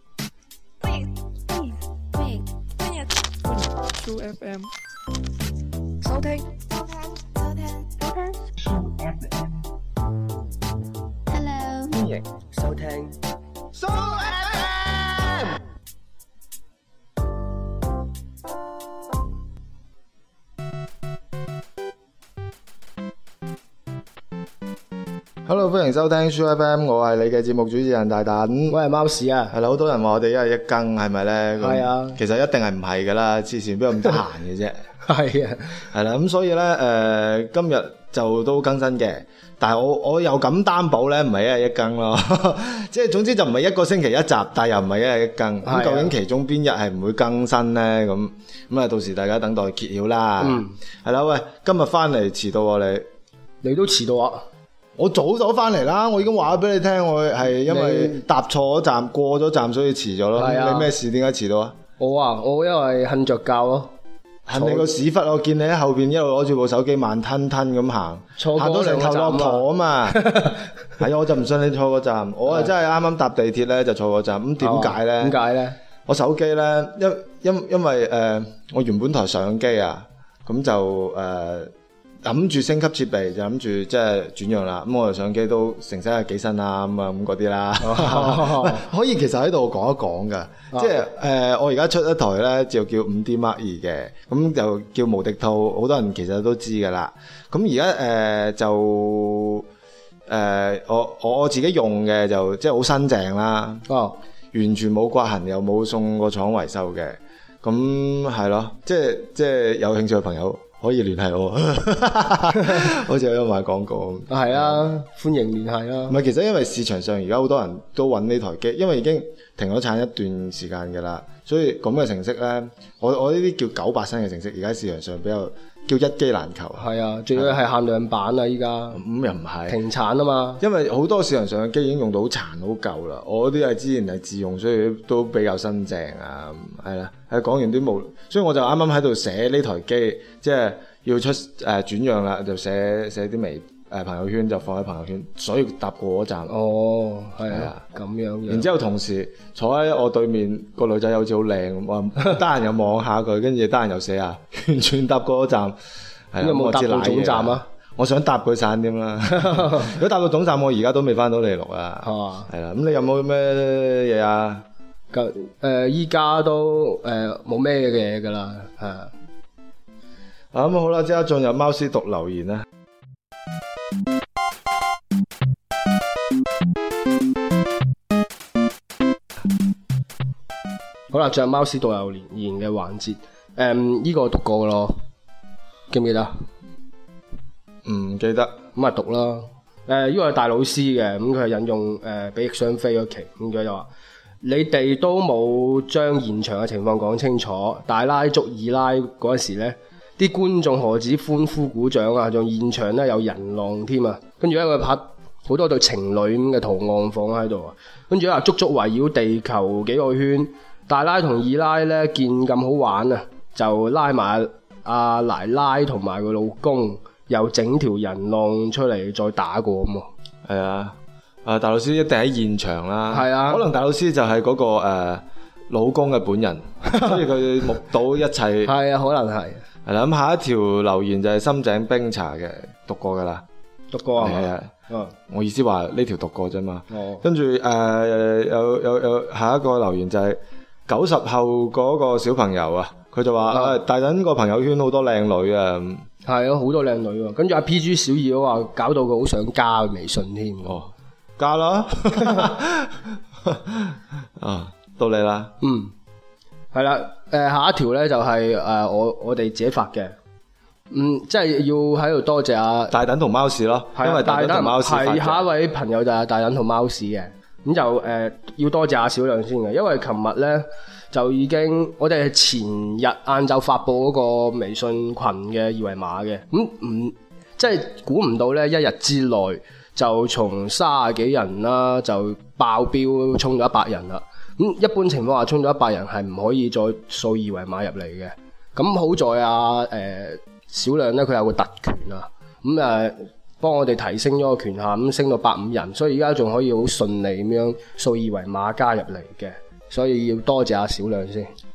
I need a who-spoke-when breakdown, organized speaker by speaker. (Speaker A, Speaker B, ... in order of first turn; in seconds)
Speaker A: 0.8-4.7, 6.0-8.5, 11.3-12.1
Speaker B: 8.8-9.5, 12.0-12.2, 13.7-15.6, 25.4-28.8, 29.5-34.8, 35.9-53.1, 55.0-61.8, 64.5-70.4, 71.0-75.4, 76.0-81.7, 82.2-99.7, 100.3-103.9, 104.5-114.9, 116.1-127.5, 128.9-129.8, 130.6-146.5, 147.5-147.8, 148.5-155.8, 156.3-164.6, 170.5-172.7, 187.8-188.6, 220.4-228.7, 229.8-233.4, 234.2-234.7, 235.3-246.1, 250.6-255.5, 262.9-265.5
Speaker C: 12.5-13.1, 28.7-29.5, 31.6-32.2, 35.0-35.8, 45.6-46.1, 50.4-50.7, 53.6-54.4, 57.7-58.2, 60.4-60.9, 62.0-63.9, 64.5-64.9, 68.4-70.6, 74.6-75.7, 87.8-88.8, 90.7-91.0, 103.9-104.2, 114.3-116.2, 126.8-129.0, 129.7-130.6, 146.5-148.7, 156.4-157.6, 159.3-159.9, 162.0-162.5, 165.1-169.1, 181.1-185.0, 185.9-186.4, 188.7-193.9, 194.4-220.1, 223.1-223.6, 226.9-227.2, 228.6-229.6, 233.9-235.1, 236.9-237.2, 246.2-250.8, 255.6-255.9, 256.7-260.1, 260.9-262.9, 263.9-301.5